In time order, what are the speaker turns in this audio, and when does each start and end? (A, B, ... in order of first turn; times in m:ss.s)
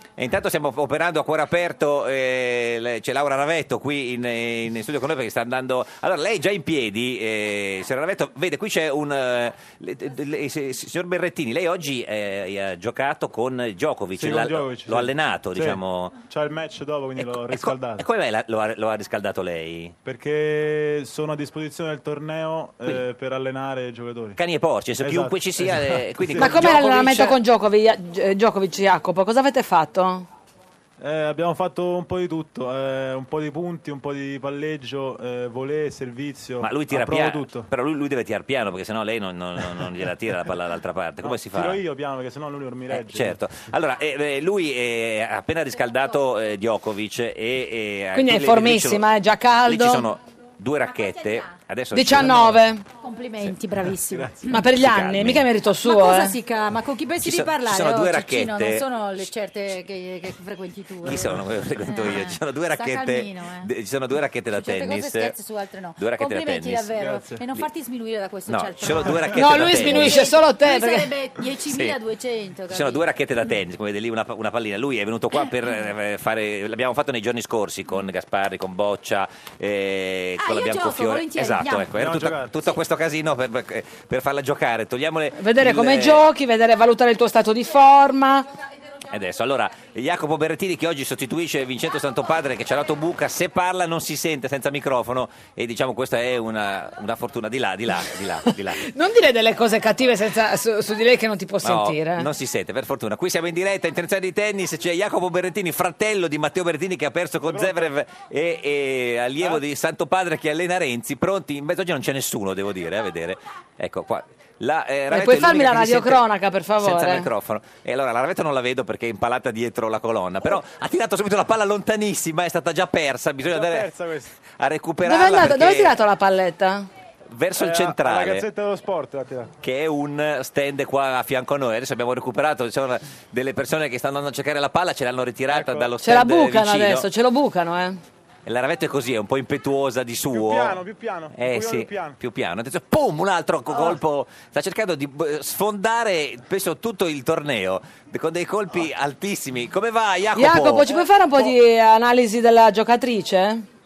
0:00.2-0:16.2 A
0:14.2-0:18.0 B
0:17.2-0:20.0 A
0:20.0-0:24.4 B
0:24.4-0:27.4 A
0:25.0-0:26.8 B
0:26.4-0:30.3 C
0:31.0-0:37.7 B
0:36.6-0:41.8 A
0:41.2-0:43.4 B
0:42.9-0:49.0 A
0:48.1-0:50.0 C
0:49.6-0:52.6 A
0:51.0-0:51.5 D
0:51.9-0:52.8 C
0:53.0-0:54.6 D
0:54.5-0:56.3 C
0:54.6-0:55.4 A
0:55.8-1:03.7 D
0:57.2-0:58.8 A
1:01.0-1:05.3 A
1:04.5-1:13.0 D
1:06.0-1:06.9 A
1:07.0-1:07.4 B
1:08.5-1:10.3 A
1:09.3-1:11.1 C
1:11.7-1:12.0 A
1:12.7-1:26.2 A
1:20.4-1:21.9 D
1:21.9-1:22.5 B
1:25.4-1:28.4 C
1:29.1-1:38.8 A
1:38.8-1:42.3 C
1:41.6-1:56.2 A
1:47.5-1:47.9 B
1:55.1-1:57.3 C
1:56.8-2:03.9 A
2:03.5-2:04.4 B
2:04.5-2:05.9 A
2:05.0-2:06.9 C
2:07.3-2:08.5 A
2:07.6-2:09.5 B
2:09.6-2:17.1 A
2:15.5-2:15.9 B
2:16.0-2:18.0 C
2:18.4-2:20.8 A
2:20.3-2:22.2 B
2:21.3-2:30.9 A
2:30.4-2:33.6 C